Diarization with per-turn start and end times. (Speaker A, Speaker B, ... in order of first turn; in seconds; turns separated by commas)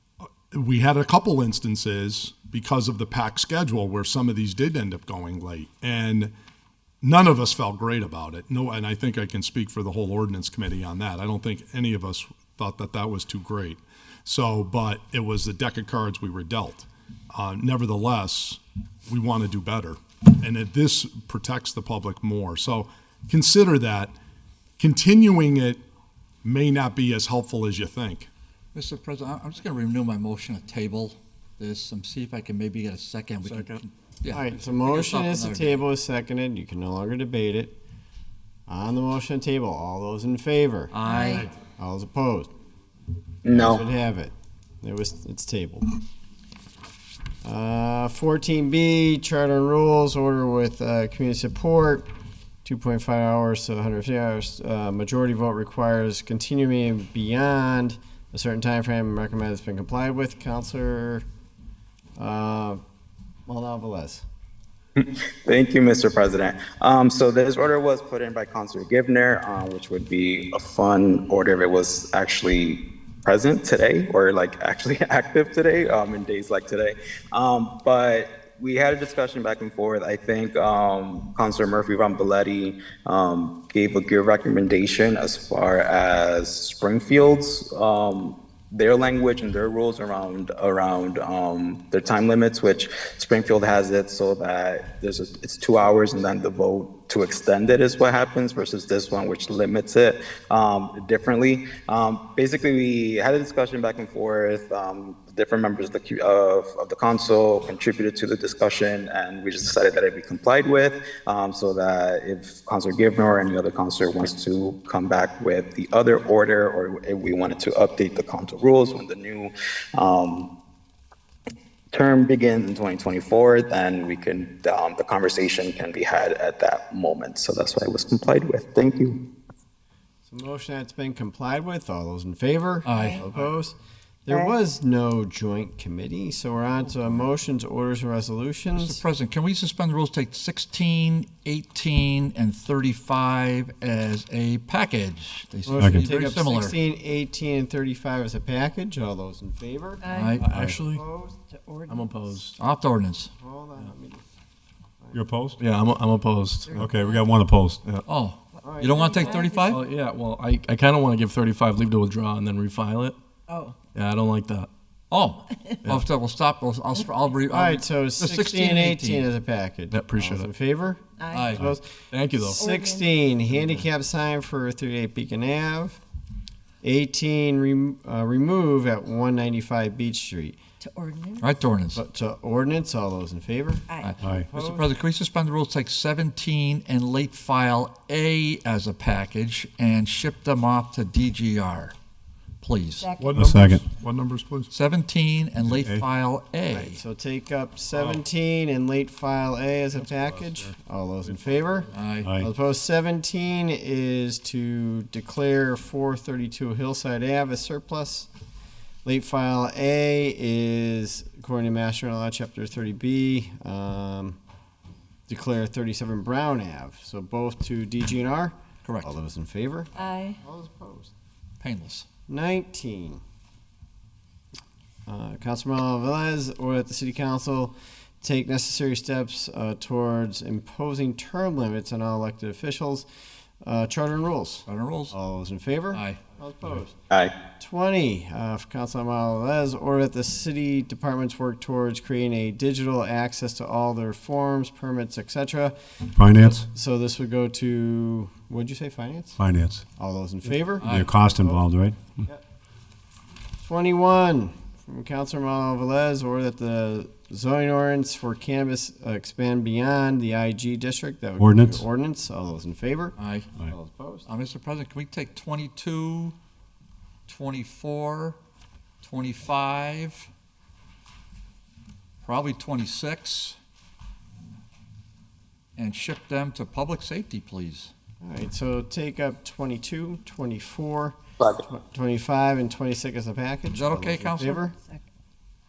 Speaker A: 0.5-6.3, Speaker A: 7.0-24.1, Speaker A: 24.8-25.8, Speaker A: 26.4-28.3, Speaker B: 28.7-35.8, Speaker C: 33.5-33.8, Speaker D: 34.3-37.8, Speaker D: 38.7-40.9, Speaker B: 40.9-41.4, Speaker E: 41.0-41.5, Speaker D: 41.7-42.5, Speaker F: 43.4-43.8, Speaker D: 43.5-45.9, Speaker D: 47.4-52.1, Speaker D: 52.6-61.2, Speaker D: 62.2-62.8, Speaker D: 63.5-64.2, Speaker F: 65.0-120.5, Speaker F: 121.9-129.2, Speaker D: 130.2-133.8, Speaker B: 132.8-133.2, Speaker E: 132.9-133.3, Speaker D: 134.3-139.0, Speaker B: 138.7-146.8, Speaker D: 145.7-151.3, Speaker G: 145.8-146.1, Speaker E: 150.0-150.4, Speaker B: 150.1-150.5, Speaker C: 150.4-151.0, Speaker E: 151.3-152.4, Speaker C: 151.9-152.6, Speaker B: 152.5-153.3, Speaker D: 153.4-154.2, Speaker G: 155.1-155.6, Speaker C: 155.6-156.9, Speaker E: 156.7-157.3, Speaker G: 156.8-157.8, Speaker B: 158.1-159.8, Speaker E: 158.6-159.8, Speaker D: 158.6-159.3, Speaker C: 159.7-163.2, Speaker E: 163.5-163.8, Speaker C: 163.9-164.7, Speaker B: 165.1-169.3, Speaker D: 167.5-176.0, Speaker C: 169.9-170.5, Speaker E: 171.2-171.6, Speaker B: 171.3-171.7, Speaker C: 172.1-172.7, Speaker E: 172.5-173.3, Speaker D: 176.8-180.6, Speaker E: 180.8-181.7, Speaker B: 181.4-182.0, Speaker D: 181.9-184.9, Speaker E: 183.9-184.2, Speaker B: 184.0-191.9, Speaker B: 192.6-193.2, Speaker E: 193.0-193.4, Speaker A: 193.2-194.7, Speaker G: 193.3-193.8, Speaker B: 194.7-197.0, Speaker G: 195.7-196.0, Speaker D: 196.7-208.3, Speaker A: 197.9-198.2, Speaker A: 200.1-200.8, Speaker B: 201.9-202.4, Speaker G: 202.2-202.5, Speaker D: 209.0-214.4, Speaker D: 215.3-221.1, Speaker B: 218.8-219.2, Speaker E: 220.0-220.4, Speaker B: 221.6-222.1, Speaker D: 222.3-223.2, Speaker D: 225.1-233.1, Speaker D: 233.6-237.0, Speaker B: 234.7-235.2, Speaker B: 235.9-236.2, Speaker D: 237.6-245.8, Speaker G: 246.2-246.7, Speaker D: 246.4-249.4, Speaker G: 249.4-249.8, Speaker D: 249.9-251.6, Speaker B: 250.8-251.2, Speaker G: 250.8-252.2, Speaker D: 253.6-264.3, Speaker G: 261.4-261.8, Speaker B: 263.1-263.5, Speaker B: 264.2-266.3, Speaker B: 267.3-268.4, Speaker B: 269.0-270.3, Speaker B: 272.2-273.6, Speaker B: 275.8-277.9, Speaker D: 278.2-284.7, Speaker F: 281.4-281.6, Speaker B: 283.7-284.4, Speaker E: 284.4-285.0